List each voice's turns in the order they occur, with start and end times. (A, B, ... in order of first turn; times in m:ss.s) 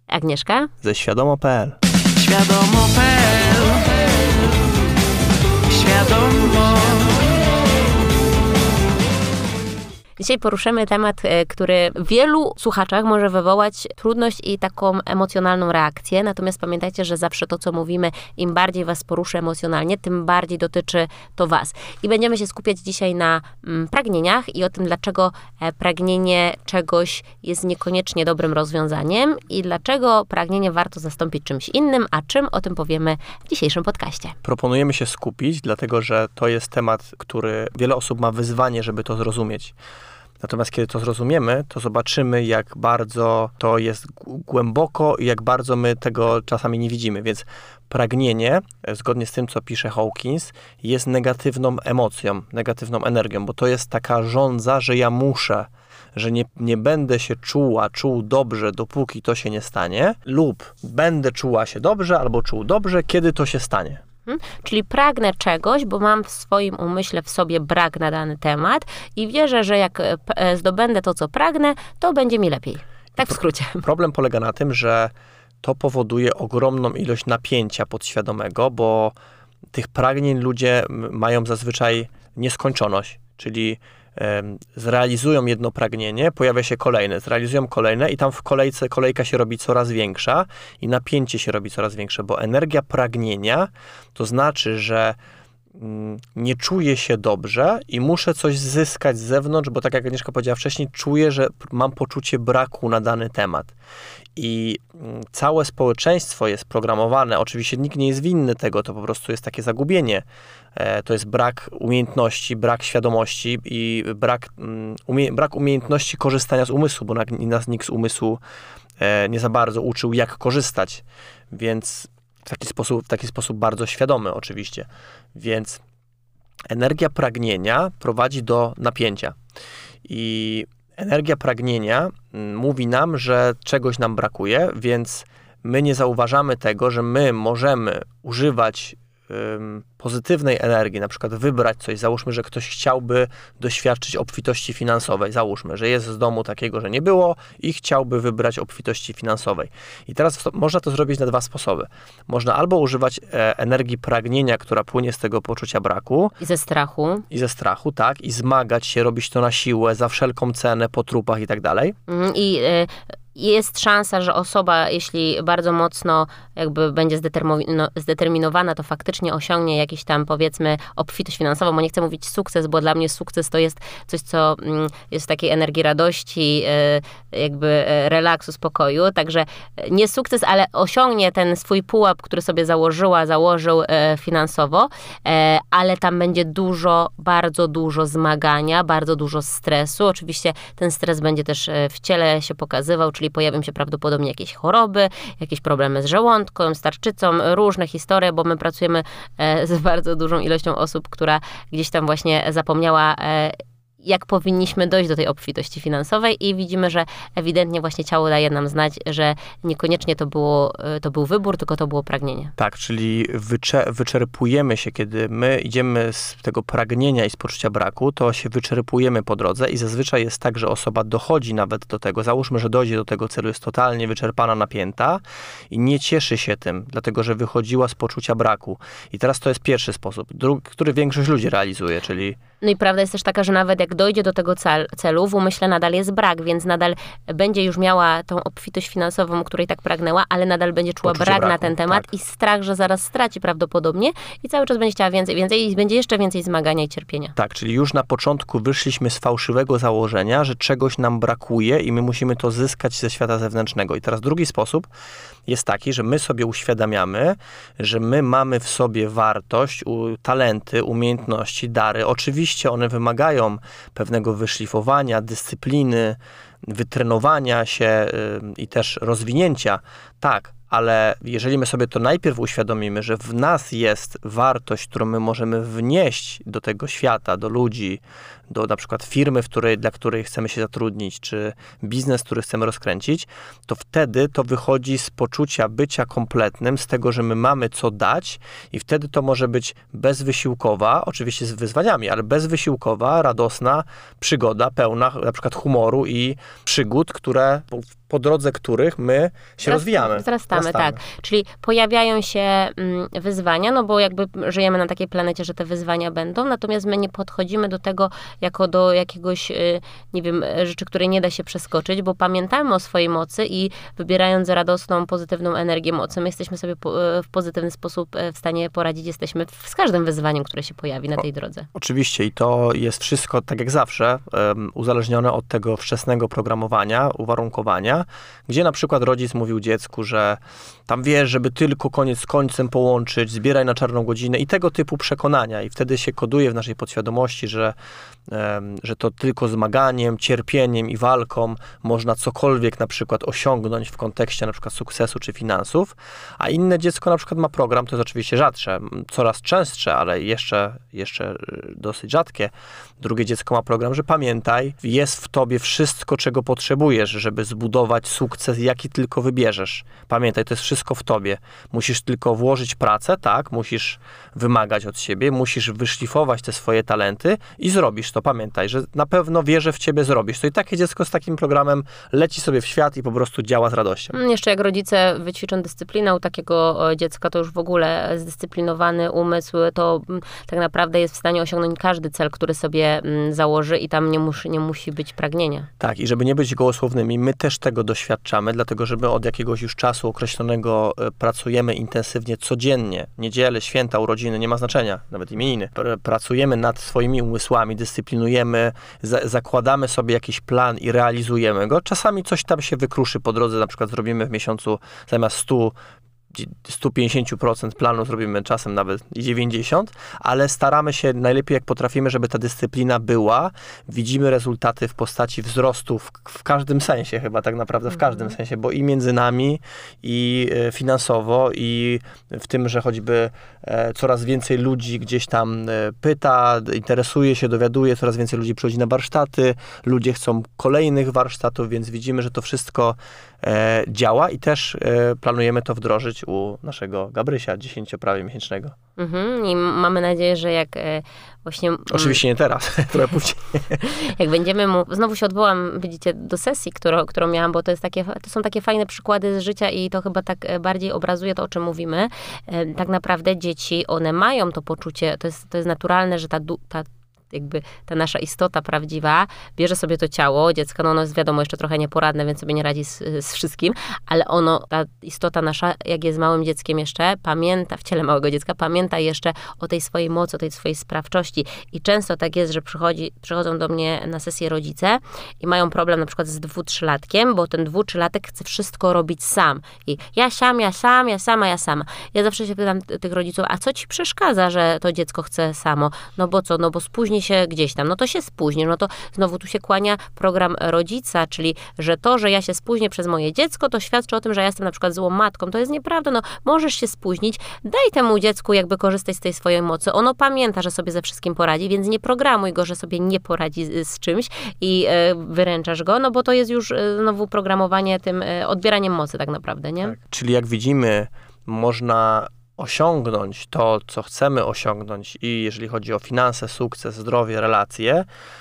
0:00.1-0:00.7 A
0:00.8-0:01.8 B
0:02.2-0:04.0 A
0:05.7-0:07.2 A
0:10.2-0:34.4 A
0:34.4-0:39.8 B
0:40.4-1:04.0 B
1:04.3-1:13.8 A
1:13.2-1:19.2 B
1:19.7-1:35.2 B
1:35.8-1:43.7 B
1:44.4-1:58.4 B
1:59.0-2:05.8 B
2:06.7-2:09.4 B
2:10.1-2:36.4 B
2:36.4-2:37.2 A
2:37.3-2:42.0 B
2:42.1-3:32.5 A
3:32.6-3:52.4 B
3:52.6-4:07.4 A
4:01.0-4:02.1 B
4:07.4-4:14.9 B
4:15.5-5:01.0 B
4:59.6-5:21.7 A
5:21.8-5:37.8 B
5:38.3-6:14.2 B
6:14.1-6:25.7 A
6:25.8-6:45.8 B
6:46.3-7:18.7 B
7:19.0-7:22.2 A
7:21.9-7:23.9 B
7:23.8-8:30.0 A
8:29.8-8:38.1 B